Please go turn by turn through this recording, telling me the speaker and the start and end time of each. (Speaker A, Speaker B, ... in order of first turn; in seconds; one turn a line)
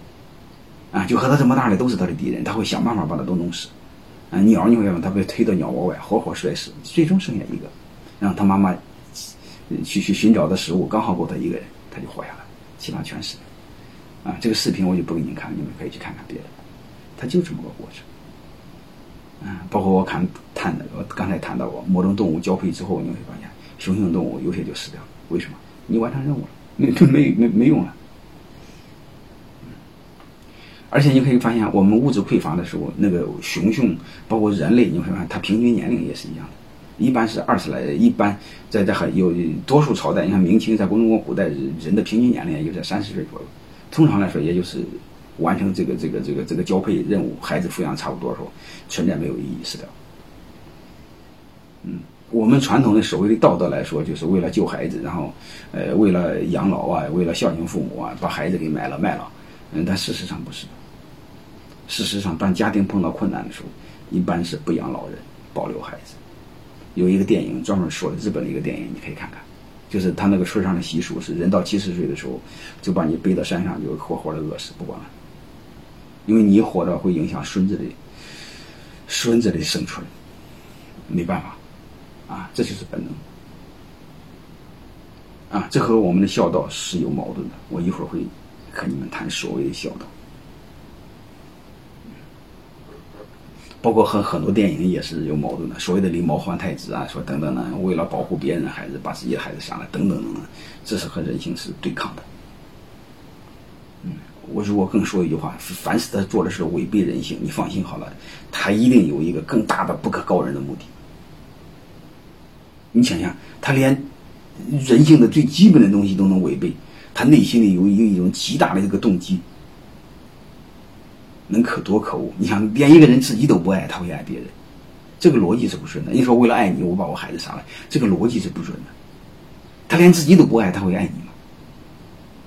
Speaker A: 0.9-3.7
Speaker A: 4.3-13.4
Speaker A: 14.2-16.5
Speaker A: 17.2-18.0
Speaker A: 19.4-27.9
Speaker A: 30.9-49.9
Speaker A: 51.8-60.7
Speaker A: 61.9-66.2
Speaker A: 66.9-75.1
Speaker A: 76.2-78.0
Speaker A: 79.1-80.1
Speaker A: 81.1-81.6
Speaker A: 82.3-83.2
Speaker A: 85.5-90.1
Speaker A: 93.8-102.2
Speaker A: 104.0-110.9
Speaker A: 112.9-119.4
Speaker A: 121.5-124.5
Speaker A: 125.2-128.9
Speaker A: 129.9-131.3